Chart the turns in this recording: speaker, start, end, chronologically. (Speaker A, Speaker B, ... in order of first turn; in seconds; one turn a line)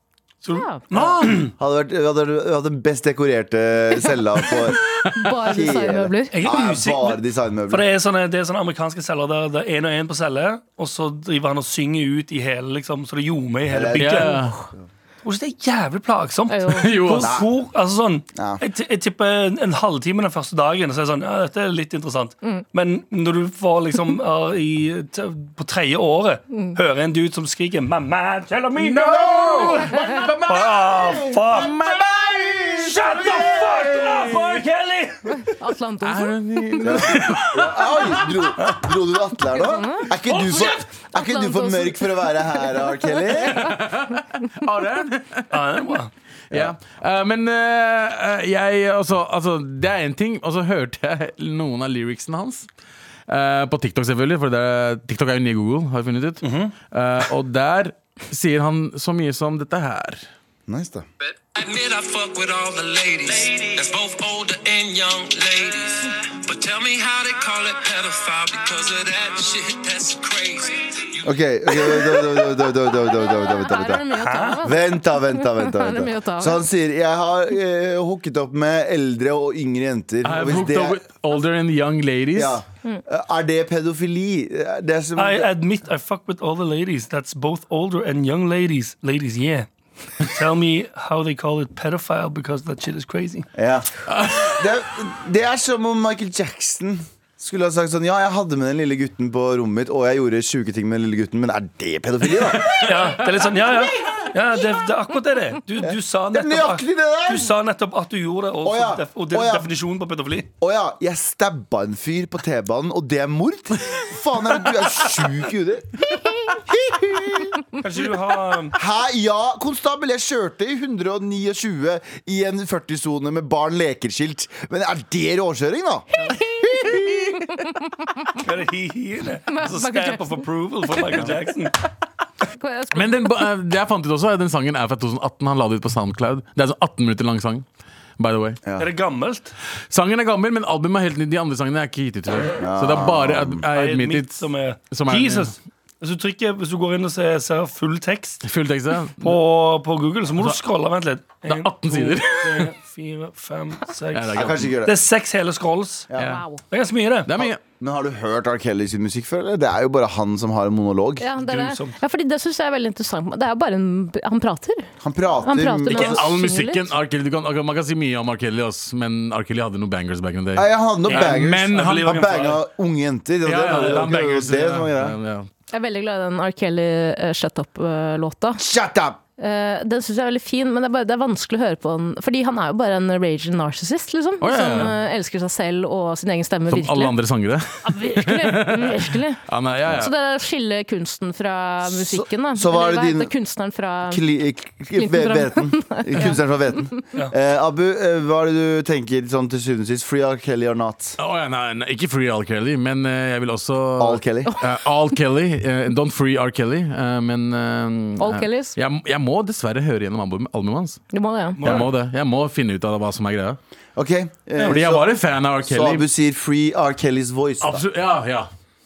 Speaker A: 0.4-1.5
Speaker B: 0.5-0.8
Speaker C: 0.9-1.4
Speaker D: 1.1-4.8
Speaker B: 4.4-6.3
Speaker D: 5.4-7.9
Speaker A: 6.3-14.3
Speaker D: 13.7-14.8
Speaker C: 14.0-14.6
Speaker A: 15.2-29.8
Speaker B: 16.5-16.9
Speaker C: 16.7-17.4
Speaker D: 17.2-17.6
Speaker D: 18.3-18.6
Speaker C: 28.8-34.7
Speaker D: 29.2-29.7
Speaker B: 29.9-30.2
Speaker A: 30.4-31.7
Speaker A: 32.7-35.3
Speaker B: 35.3-36.9
Speaker C: 36.0-38.5
Speaker D: 36.8-43.8
Speaker B: 39.5-42.8
Speaker C: 40.1-40.8
Speaker C: 43.3-45.9
Speaker A: 45.5-46.1
Speaker C: 46.5-52.7
Speaker C: 53.3-60.2
Speaker A: 56.4-56.7
Speaker D: 60.7-61.0
Speaker E: 61.2-72.2
Speaker D: 71.2-74.0
Speaker B: 72.9-76.6
Speaker A: 74.1-74.6
Speaker D: 74.6-81.0
Speaker C: 80.2-82.6
Speaker D: 82.3-85.5
Speaker A: 85.2-89.7
Speaker A: 90.2-93.5
Speaker D: 93.5-102.7
Speaker C: 94.1-94.6
Speaker C: 102.6-103.0
Speaker A: 102.8-110.5
Speaker D: 105.8-107.5
Speaker D: 108.6-109.7
Speaker D: 110.6-117.7
Speaker A: 117.8-118.8
Speaker D: 118.7-126.1
Speaker B: 126.2-128.3
Speaker C: 126.8-127.3
Speaker A: 128.4-131.8
Speaker B: 129.5-130.4
Speaker B: 132.5-133.5
Speaker C: 132.9-137.6
Speaker C: 138.2-138.6
Speaker D: 138.6-138.9
Speaker A: 138.8-139.5
Speaker C: 139.9-145.5
Speaker D: 142.6-143.6
Speaker A: 143.7-148.4
Speaker C: 148.4-149.4
Speaker A: 149.2-156.1
Speaker C: 151.4-152.7
Speaker C: 154.1-154.8
Speaker D: 154.3-155.0
Speaker D: 156.1-156.4
Speaker C: 156.2-156.4
Speaker B: 156.2-156.6
Speaker A: 156.7-157.4
Speaker C: 157.2-157.6
Speaker D: 157.4-161.2
Speaker B: 161.2-164.9
Speaker A: 161.4-161.9
Speaker D: 165.0-166.3
Speaker B: 165.4-166.9
Speaker C: 165.9-172.2
Speaker D: 170.5-175.2
Speaker A: 171.1-172.6
Speaker C: 173.4-175.5
Speaker A: 173.6-174.0
Speaker B: 175.7-178.6
Speaker D: 178.6-179.2
Speaker B: 179.4-187.1
Speaker C: 184.4-184.9
Speaker C: 186.7-190.1
Speaker B: 187.8-194.2
Speaker D: 191.9-193.3
Speaker D: 194.1-201.2
Speaker B: 194.9-196.4
Speaker C: 201.2-211.0
Speaker D: 204.0-204.6
Speaker B: 208.2-208.7
Speaker B: 211.1-211.6
Speaker A: 211.6-211.9
Speaker C: 211.6-213.6
Speaker D: 213.9-217.8
Speaker C: 214.6-216.0
Speaker C: 217.6-218.5